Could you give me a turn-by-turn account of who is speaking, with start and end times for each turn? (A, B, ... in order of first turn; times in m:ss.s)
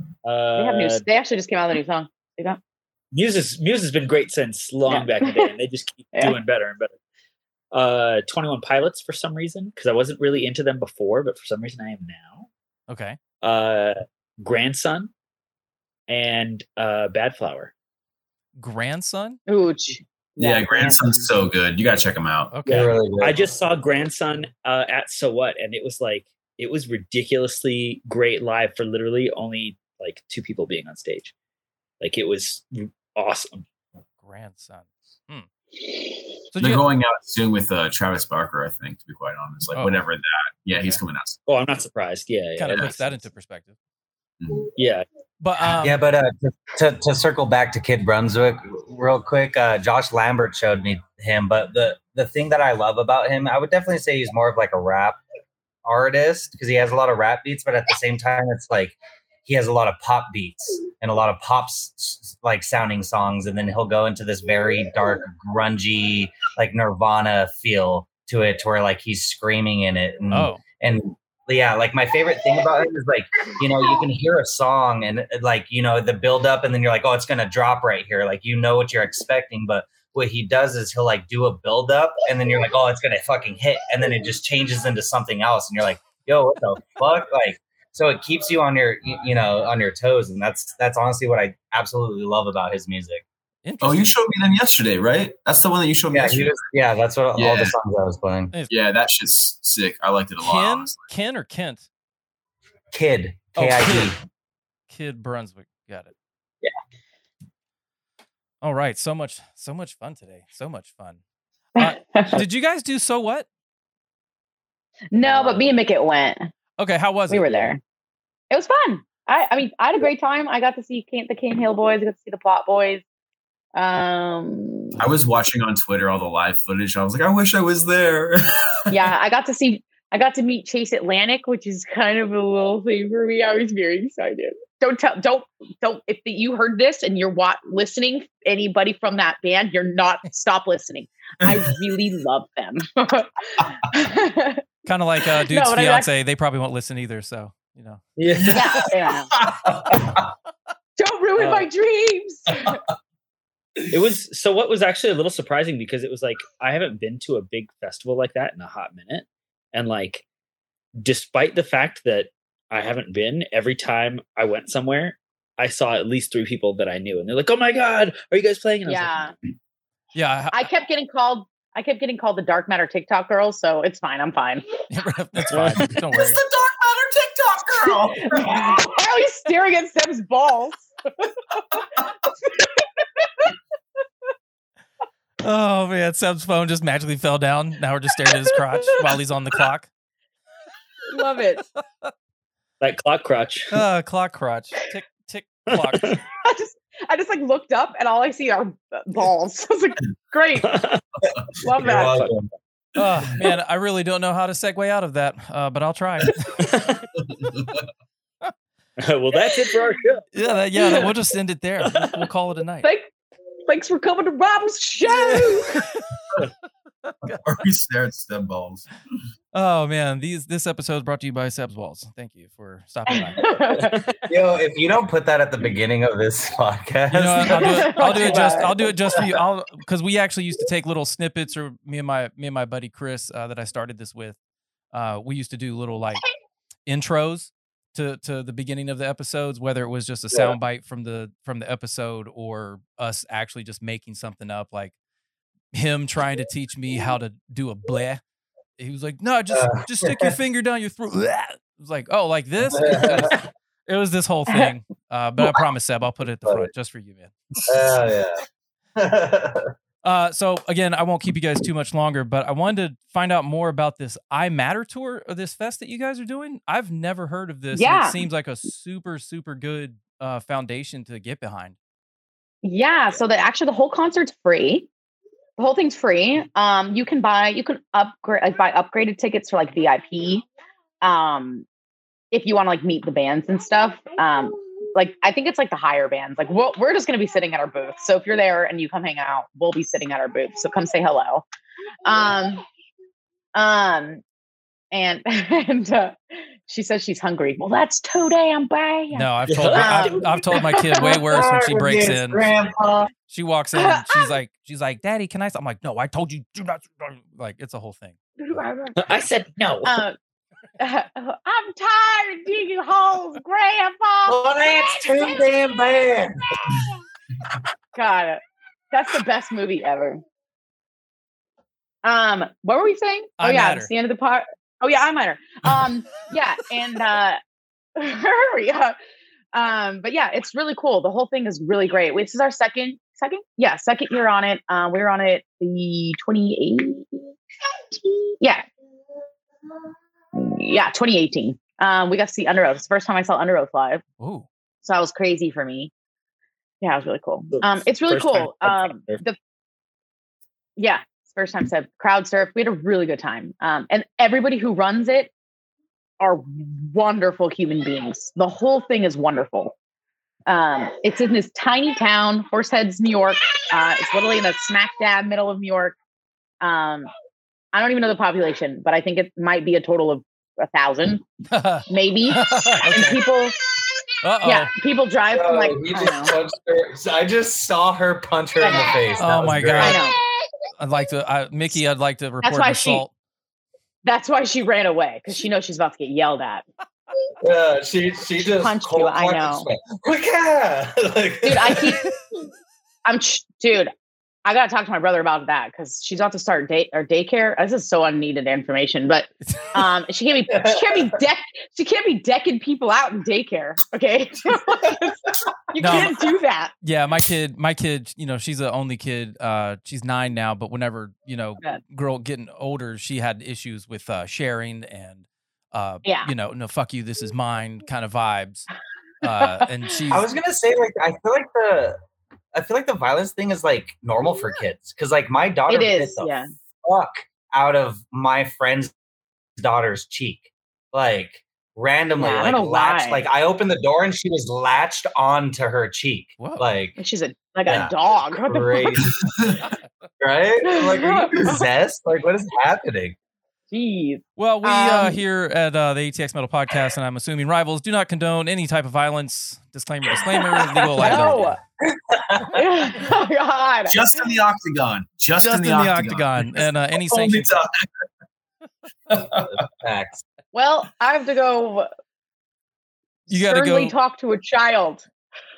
0:00.2-0:01.1 A
0:00.6-0:02.6 B
0:03.1-0:07.0 A
0:04.9-0:05.5 B
0:07.7-0:12.5 A
0:12.9-0:13.2 C
0:13.4-0:15.1 A
0:16.1-0:17.7 A
0:18.6-0:19.4 C
0:19.5-0:21.3 B
0:20.4-0:22.5 D
0:22.5-0:22.9 C
0:22.7-0:31.3 A
0:22.7-0:23.4 E
0:32.0-0:33.7 A
0:34.2-0:35.5 C
0:36.5-0:36.8 C
0:36.6-0:41.4 D
0:39.8-0:40.0 C
0:40.7-0:41.0 C
0:41.5-0:43.2 A
0:42.6-0:43.8 C
0:44.4-0:44.7 D
0:44.8-0:45.1 A
0:45.4-0:46.0 C
0:45.8-0:55.2 E
0:55.8-1:33.2 E
1:10.3-1:10.6 C
1:33.6-1:34.2 C
1:33.8-1:36.6 D
1:36.1-1:38.5 E
1:37.4-1:37.8 D
1:38.7-1:41.0 D
1:40.4-1:41.9 C
1:42.9-1:44.2 E
1:43.6-1:44.2 C
1:44.9-1:46.1 C
1:48.6-1:51.2 C
1:51.8-1:53.5 C
1:51.8-1:52.4 B
1:55.1-1:56.5 B
1:56.8-1:57.7 C
1:57.3-1:57.8 B
1:58.5-2:03.0 B
2:03.8-2:05.0 B
2:05.0-2:09.0 D
2:08.9-2:24.6 B
2:21.4-2:21.8 D
2:24.8-2:28.0 C
2:25.5-2:26.1 B
2:28.2-2:28.7 A
2:28.4-2:30.3 D
2:28.5-2:29.3 B
2:31.0-2:32.8 B
2:31.4-2:31.7 A
2:33.9-2:40.2 A
2:41.0-2:49.4 A
2:48.9-2:49.3 B
2:50.2-2:50.6 C
2:50.5-2:54.6 B
2:54.9-2:56.4 C
2:55.5-2:55.9 A
2:56.1-2:58.8 D
2:58.2-3:00.9 B
3:02.4-3:03.5 B
3:05.4-3:09.9 C
3:11.1-3:11.6 B
3:12.8-3:13.7 A
3:13.7-3:16.2 C
3:15.7-3:16.2 A
3:16.4-3:20.7 B
3:20.6-3:21.0 A
3:21.6-3:22.3 B
3:21.8-3:22.5 E
3:23.0-3:26.6 C
3:26.6-3:27.1 A
3:27.3-3:27.8 D
3:29.0-3:30.3 A
3:30.3-3:32.9 C
3:31.8-3:32.2 A
3:32.8-3:33.1 B
3:33.7-3:35.8 B
3:35.1-3:36.2 C
3:37.1-3:37.4 C
3:37.4-3:38.9 D
3:39.5-3:43.5 C
3:43.2-3:43.9 B
3:43.8-3:44.1 A
3:44.3-3:48.4 E
3:47.1-3:54.4 C
3:47.5-3:48.7 B
3:54.9-3:56.2 C
3:56.9-4:04.9 C
4:05.7-4:08.2 C
4:08.8-4:17.3 C
4:09.5-4:10.4 E
4:12.7-4:13.3 E
4:16.4-4:16.7 E
4:17.7-4:18.4 E
4:19.0-4:19.7 E
4:20.0-4:31.8 C
4:27.7-4:28.2 B
4:32.6-4:34.9 B
4:35.6-4:40.4 B
4:41.0-4:41.7 B
4:42.3-4:51.4 B
4:52.0-4:52.6 B
4:53.6-4:54.2 B
4:54.9-5:01.2 B
4:59.1-5:02.5 C
4:59.5-5:00.3 A
5:01.2-5:03.1 E
5:03.3-5:08.2 C
5:03.8-5:04.3 B
5:08.4-5:09.0 B
5:09.0-5:10.0 A
5:09.8-5:10.2 B
5:10.8-5:15.2 B
5:14.3-5:16.4 E
5:18.0-5:18.4 B
5:18.9-5:20.2 B
5:22.0-5:27.4 B
5:23.4-5:23.9 C
5:28.0-5:29.0 B
5:29.5-5:37.3 B
5:37.9-5:38.6 B
5:40.3-5:44.0 B
5:44.2-5:44.5 C
5:44.8-5:45.9 B
5:46.8-5:49.4 B
5:47.5-5:49.2 A
5:50.8-5:55.3 B
5:56.2-5:59.7 B
6:00.5-6:06.0 B
6:06.6-6:07.1 B
6:07.7-6:11.2 B
6:11.5-6:13.2 C
6:11.9-6:13.6 B
6:14.2-6:14.7 C
6:14.4-6:16.3 B
6:15.3-6:20.1 E
6:18.6-6:19.0 B
6:19.2-6:20.0 C
6:19.8-6:20.2 B
6:20.8-6:23.1 C
6:22.4-6:23.0 B
6:24.0-6:26.6 B
6:27.4-6:32.0 E
6:28.6-6:29.7 B
6:31.4-6:32.1 B
6:33.0-6:33.9 B
6:34.4-6:46.7 B
6:39.4-6:39.8 C
6:40.6-6:41.0 E
6:45.8-6:46.1 C
6:46.8-6:58.7 C
6:56.0-6:56.3 B
6:59.2-7:00.3 C
7:00.1-7:02.0 E
7:02.5-7:08.9 E
7:05.7-7:06.5 B
7:09.6-7:17.0 E
7:12.2-7:13.2 B
7:16.4-7:16.7 C
7:17.0-7:18.9 B
7:17.7-7:19.1 E
7:19.0-7:19.6 D
7:20.2-7:23.2 E
7:20.7-7:21.6 B
7:23.7-7:25.2 B
7:24.4-7:31.6 C
7:31.0-7:31.6 B
7:31.0-7:31.4 E
7:31.9-7:32.7 E
7:32.5-7:34.1 B
7:33.9-7:37.8 D
7:35.4-7:37.6 C
7:39.1-7:39.5 D
7:39.5-7:40.2 E
7:40.5-7:41.9 B
7:43.3-7:45.1 B
7:43.3-7:43.9 C